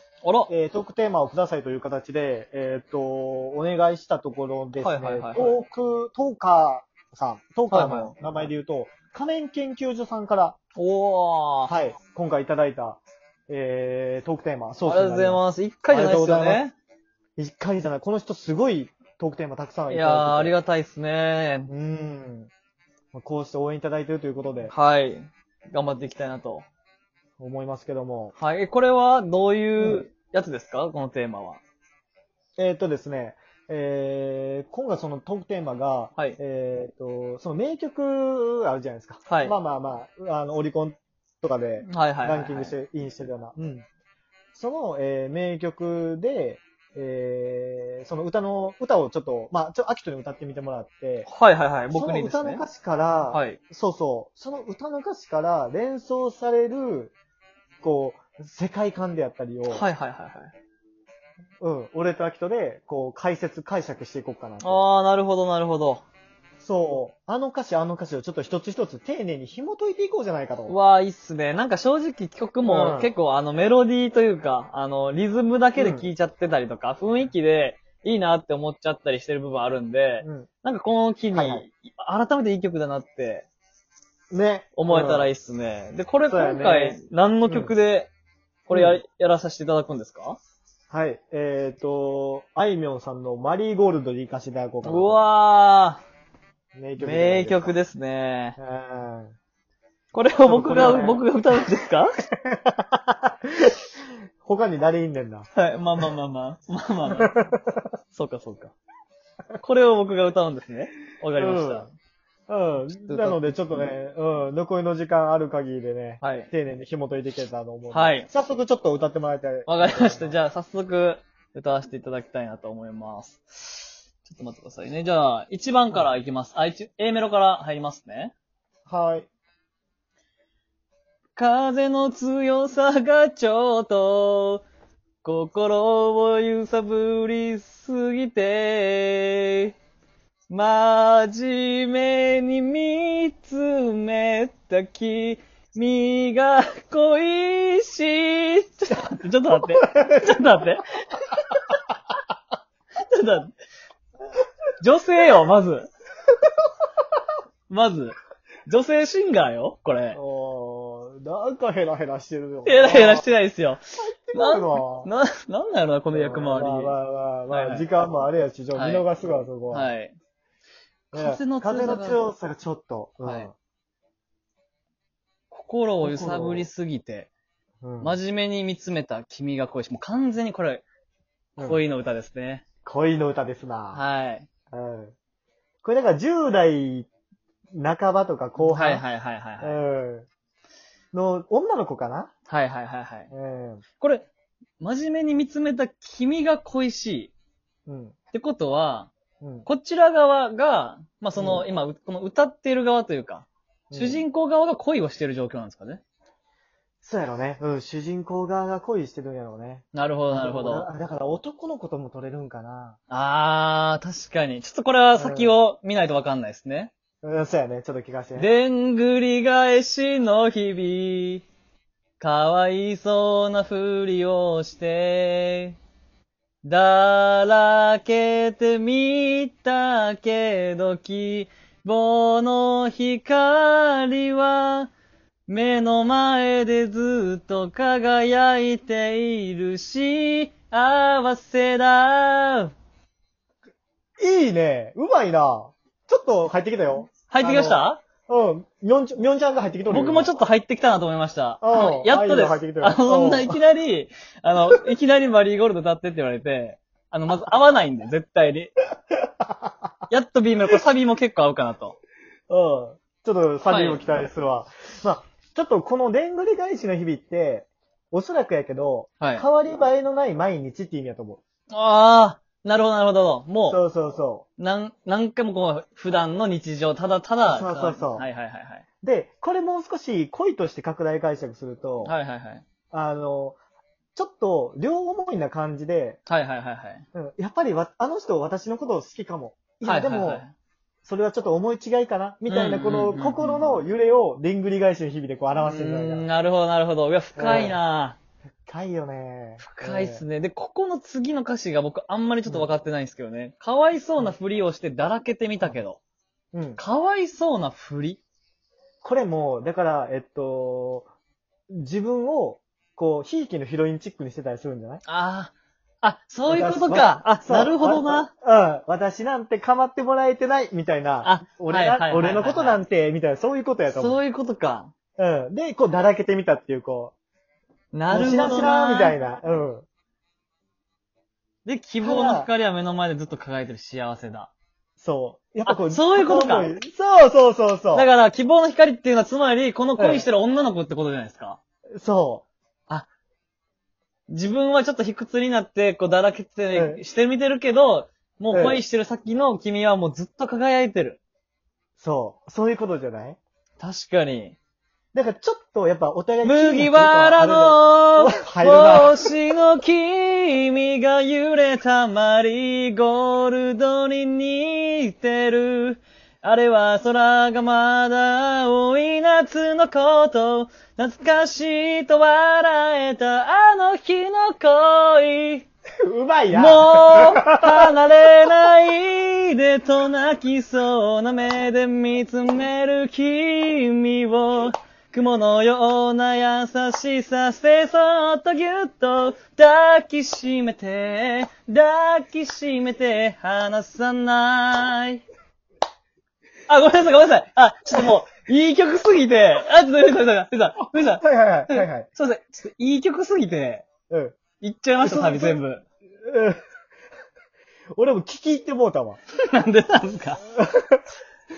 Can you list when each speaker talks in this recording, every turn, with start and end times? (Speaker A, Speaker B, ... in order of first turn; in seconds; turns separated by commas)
Speaker A: 0.2-0.5, Speaker B: 0.5-10.6, Speaker A: 4.8-5.6, Speaker A: 7.7-8.1, Speaker A: 10.8-11.7, Speaker B: 11.7-16.6, Speaker A: 14.8-16.7, Speaker B: 17.4-20.5, Speaker A: 19.9-21.7, Speaker B: 21.7-22.5, Speaker B: 23.1-24.7, Speaker A: 24.7-26.6, Speaker B: 27.4-28.3, Speaker A: 28.4-31.6, Speaker B: 29.8-30.0, Speaker B: 32.6-43.8, Speaker A: 39.2-39.5, Speaker A: 41.9-42.7, Speaker B: 44.5-51.3, Speaker A: 51.2-52.6, Speaker B: 51.9-57.1, Speaker A: 53.3-53.6, Speaker B: 57.8-59.8, Speaker A: 59.7-60.5, Speaker B: 61.6-64.8, Speaker A: 64.6-66.0, Speaker B: 66.6-70.7, Speaker A: 70.7-83.5, Speaker B: 72.6-73.1, Speaker B: 75.8-76.1, Speaker B: 80.2-80.5, Speaker B: 81.3-81.7, Speaker B: 84.3-85.3, Speaker A: 84.8-88.1, Speaker B: 86.3-87.7, Speaker A: 88.7-90.4, Speaker B: 88.7-89.0, Speaker B: 90.9-95.2, Speaker A: 94.8-96.0, Speaker B: 96.7-97.8, Speaker A: 97.0-98.6, Speaker B: 98.6-99.3, Speaker A: 100.1-102.2, Speaker B: 100.4-101.2, Speaker B: 102.4-103.8, Speaker B: 104.4-105.5, Speaker A: 105.5-107.5, Speaker B: 107.1-107.8, Speaker A: 108.1-108.7, Speaker A: 109.6-111.9, Speaker B: 111.3-111.9, Speaker B: 112.5-120.3, Speaker A: 113.1-113.9, Speaker A: 116.2-116.5, Speaker A: 117.9-118.3, Speaker A: 119.7-128.3, Speaker B: 128.9-129.3, Speaker A: 131.3-134.6, Speaker A: 135.2-139.7, Speaker A: 140.5-150.9, Speaker B: 149.7-150.4, Speaker A: 153.0-153.5, Speaker A: 154.8-155.9, Speaker A: 157.7-160.2, Speaker B: 160.1-163.2, Speaker A: 162.7-163.8, Speaker B: 164.0-165.1, Speaker A: 164.3-166.9, Speaker B: 166.1-169.9, Speaker A: 167.5-167.8, Speaker A: 168.7-169.1, Speaker A: 169.7-170.1, Speaker B: 171.1-173.5, Speaker A: 171.1-172.2, Speaker A: 175.5-177.3, Speaker B: 176.0-176.7, Speaker B: 177.8-178.2, Speaker A: 178.0-180.8, Speaker A: 181.6-182.6, Speaker B: 182.8-184.0, Speaker A: 183.9-184.5, Speaker B: 184.7-185.1, Speaker B: 185.8-187.1, Speaker B: 187.7-189.0, Speaker A: 188.6-189.8, Speaker B: 189.6-190.3, Speaker B: 191.1-192.3, Speaker A: 192.5-193.3, Speaker B: 193.3-193.8, Speaker A: 194.0-194.3, Speaker A: 194.8-197.3, Speaker B: 197.8-198.1, Speaker A: 198.3-199.1, Speaker B: 199.4-199.7, Speaker A: 199.7-206.0, Speaker B: 201.3-201.7, Speaker B: 203.9-204.2, Speaker B: 207.0-213.0, Speaker A: 209.9-210.9, Speaker A: 213.1-216.9, Speaker B: 215.1-215.6, Speaker B: 217.2-218.5, Speaker A: 218.4-221.4, Speaker A: 222.2-225.8, Speaker A: 226.6-234.9, Speaker A: 235.5-242.7, Speaker B: 244.2-250.3, Speaker A: 247.3-248.0, Speaker A: 249.9-258.7, Speaker B: 251.6-253.6, Speaker B: 259.4-259.7, Speaker A: 260.1-262.0, Speaker B: 262.5-271.4, Speaker A: 263.6-264.0, Speaker A: 269.2-269.4, Speaker A: 271.7-273.8, Speaker B: 273.7-274.4, Speaker A: 274.6-278.8, Speaker B: 277.4-278.2, Speaker B: 279.0-282.1, Speaker A: 282.0-282.6, Speaker B: 282.9-283.6, Speaker B: 284.1-286.2, Speaker A: 286.3-287.0, Speaker B: 287.1-290.4, Speaker A: 289.8-290.5, Speaker B: 291.0-296.3, Speaker A: 292.5-293.8, Speaker A: 295.6-298.2, Speaker B: 297.4-297.8, Speaker B: 298.6-300.2, Speaker A: 299.6-306.0, Speaker B: 306.5-306.8, Speaker A: 306.8-308.2, Speaker B: 309.0-311.1, Speaker B: 311.7-315.0, Speaker A: 315.1-318.3, Speaker B: 316.5-324.2, Speaker A: 321.2-322.8, Speaker A: 323.9-324.9, Speaker B: 325.2-327.1, Speaker A: 327.9-329.1, Speaker B: 328.1-329.9, Speaker A: 331.6-334.5, Speaker B: 332.0-332.5, Speaker B: 335.0-338.1, Speaker A: 335.6-336.7, Speaker A: 337.9-341.6, Speaker B: 340.0-340.2, Speaker B: 342.0-342.4, Speaker A: 344.3-351.2, Speaker B: 346.7-347.0, Speaker B: 348.5-348.8, Speaker B: 352.0-353.4, Speaker A: 353.8-354.6, Speaker B: 355.1-359.3, Speaker A: 356.4-375.6, Speaker B: 376.0-377.9, Speaker A: 376.5-395.2, Speaker A: 396.7-403.8, Speaker B: 401.2-402.1, Speaker B: 404.1-404.4, Speaker A: 404.6-405.8, Speaker B: 405.0-405.6, Speaker B: 406.2-406.6, Speaker B: 407.9-409.2, Speaker A: 409.4-410.4, Speaker B: 410.5-411.0